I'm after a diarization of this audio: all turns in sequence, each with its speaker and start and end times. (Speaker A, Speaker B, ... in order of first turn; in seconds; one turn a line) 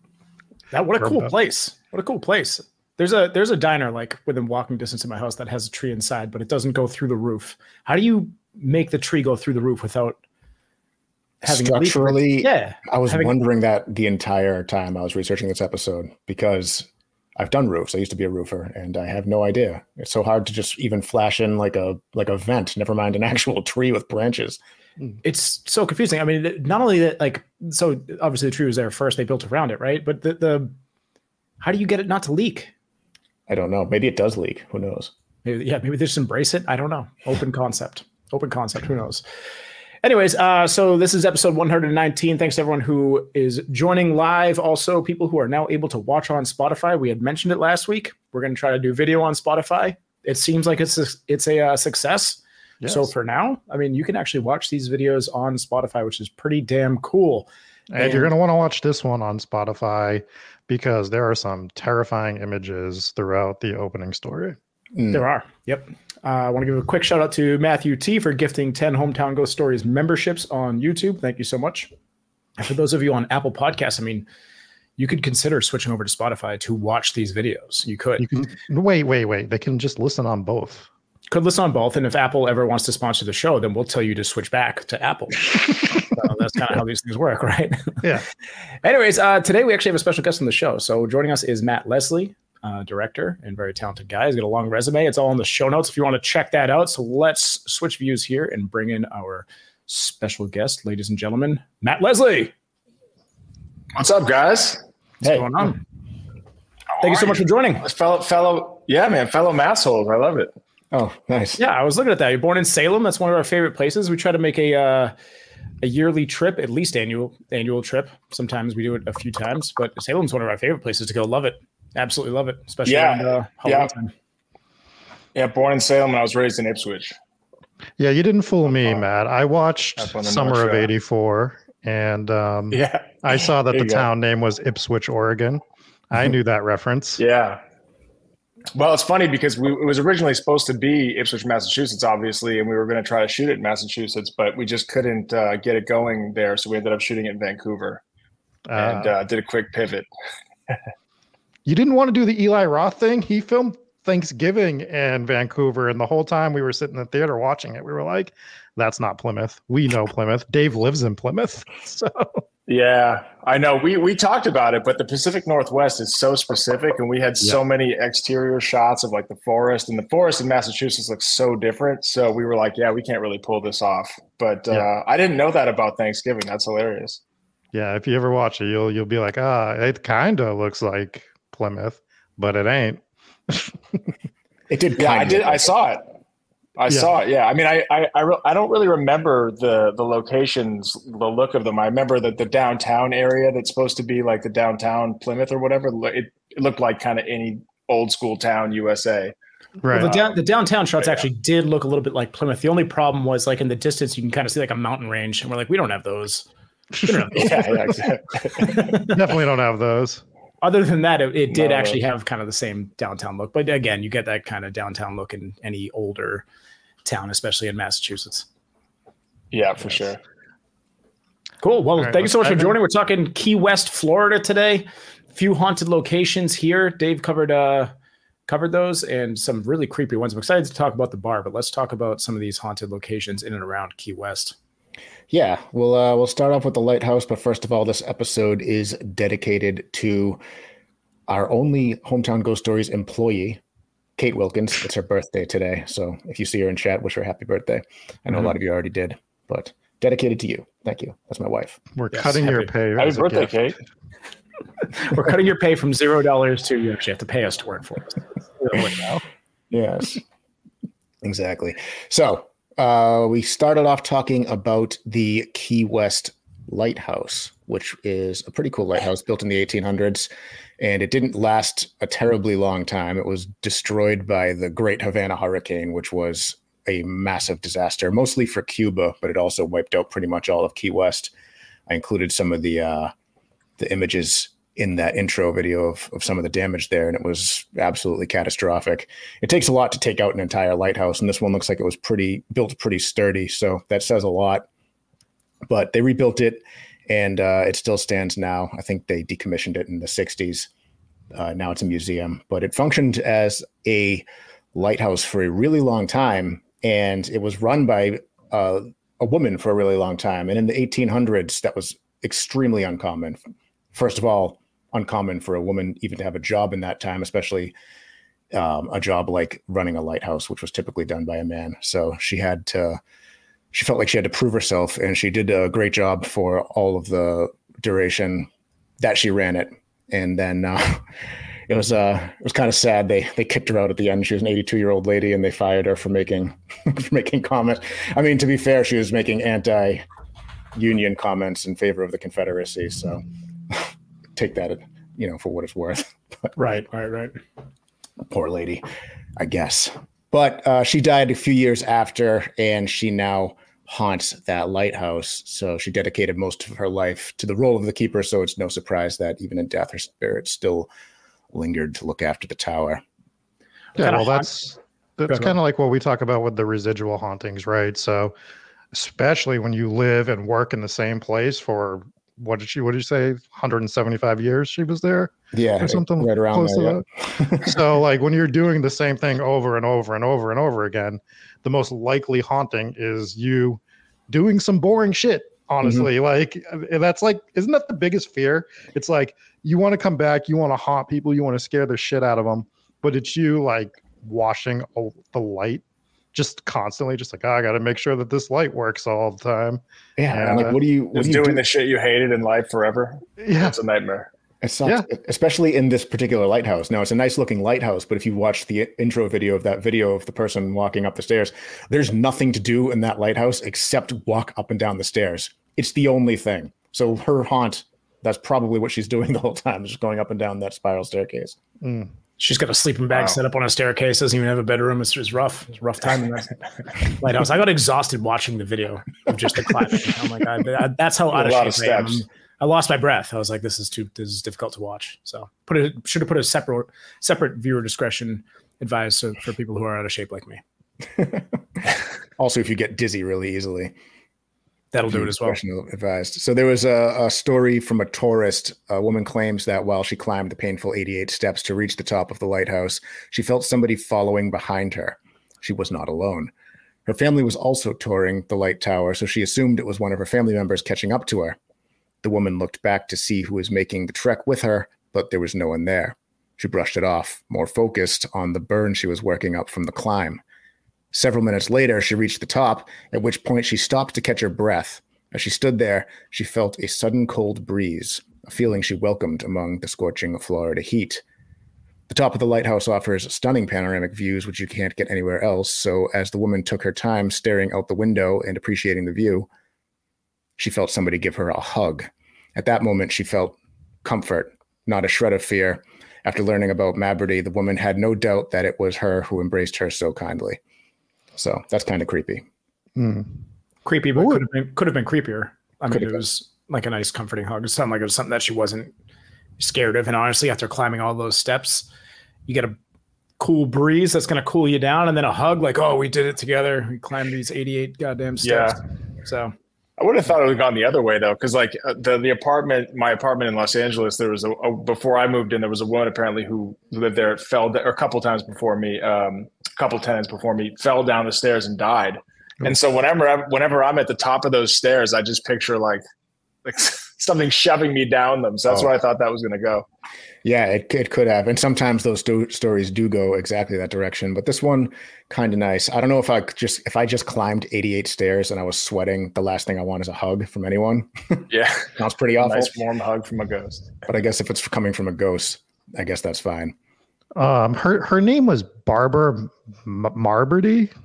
Speaker A: 0.7-10.2
Speaker B: 11.4-24.6
Speaker A: 11.4-13.3
Speaker A: 25.2-30.7
Speaker A: 31.6-32.7
Speaker B: 33.5-35.1
Speaker A: 35.4-39.2
Speaker A: 40.0-58.3
Speaker C: 52.8-53.1
Speaker C: 57.9-64.6
Speaker B: 64.9-65.2
Speaker A: 65.1-71.9
Speaker A: 72.6-74.3
Speaker A: 75.0-78.3
Speaker C: 78.2-80.9
Speaker A: 81.3-88.0
Speaker A: 88.8-102.5
Speaker D: 103.9-104.8
Speaker B: 105.2-105.7
Speaker A: 105.2-105.8
Speaker A: 107.0-107.8
Speaker D: 107.0-110.5
Speaker B: 110.9-111.6
Speaker A: 111.6-115.1
Speaker A: 115.8-124.1
Speaker D: 122.8-123.9
Speaker D: 125.3-127.2
Speaker C: 128.0-137.2
Speaker D: 128.7-129.0
Speaker D: 130.0-130.9
Speaker D: 132.7-134.1
Speaker D: 137.2-137.6
Speaker D: 138.7-148.0
Speaker C: 148.7-149.1
Speaker D: 148.8-150.1
Speaker C: 151.7-162.4
Speaker D: 162.7-177.2
Speaker C: 177.7-184.0
Speaker B: 184.7-185.7
Speaker D: 185.0-186.0
Speaker D: 186.8-199.3
Speaker C: 199.8-200.1
Speaker A: 199.9-206.5
Speaker D: 199.9-200.3
Speaker A: 207.0-207.7
Speaker D: 207.3-209.1
Speaker A: 208.6-209.1
Speaker C: 209.1-210.2
Speaker A: 210.6-216.4
Speaker D: 211.5-212.0
Speaker A: 217.0-218.4
Speaker D: 219.5-220.2
Speaker A: 221.6-227.9
Speaker C: 222.0-222.8
Speaker A: 228.5-234.6
Speaker B: 235.3-240.4
Speaker B: 241.3-243.6
Speaker B: 244.2-251.8
Speaker C: 251.9-253.5
Speaker A: 252.1-252.7
Speaker D: 252.9-253.8
Speaker A: 254.9-259.2
Speaker B: 259.7-260.2
Speaker B: 261.2-281.3
Speaker B: 281.9-283.1
Speaker B: 283.8-294.7
Speaker B: 295.7-300.7
Speaker B: 301.3-313.4
Speaker B: 313.9-317.7
Speaker B: 318.5-323.0
Speaker B: 323.7-328.5
Speaker B: 329.0-331.0
Speaker B: 331.7-340.0
Speaker B: 340.7-346.5
Speaker A: 346.6-347.4
Speaker B: 348.3-348.8
Speaker B: 349.4-360.9
Speaker B: 361.5-363.0
Speaker A: 364.0-364.5
Speaker C: 364.0-368.3
Speaker A: 365.3-365.5
Speaker C: 368.9-395.8
Speaker B: 375.5-377.8
Speaker B: 385.8-386.1
Speaker C: 396.3-400.8
Speaker B: 400.2-401.6
Speaker D: 401.1-404.3
Speaker C: 403.4-403.7
Speaker B: 404.6-421.6
Speaker C: 421.8-422.1
Speaker A: 422.4-426.5
Speaker D: 423.1-423.4
Speaker A: 427.0-440.6
Speaker D: 431.3-432.2
Speaker B: 441.1-441.5
Speaker B: 442.4-443.9
Speaker A: 444.9-445.6
Speaker B: 445.1-456.5
Speaker B: 457.1-461.6
Speaker B: 462.2-470.4
Speaker B: 471.1-481.2
Speaker B: 482.1-489.5
Speaker B: 490.6-500.6
Speaker B: 501.4-502.4
Speaker C: 502.9-503.4
Speaker A: 503.8-508.9
Speaker C: 504.1-504.4
Speaker B: 505.9-506.2
Speaker A: 509.6-511.9
Speaker A: 512.5-512.8
Speaker A: 513.4-519.5
Speaker D: 518.4-518.8
Speaker D: 520.0-536.0
Speaker D: 536.6-539.9
Speaker B: 540.4-552.7
Speaker D: 551.5-554.0
Speaker B: 554.0-556.7
Speaker C: 557.4-560.9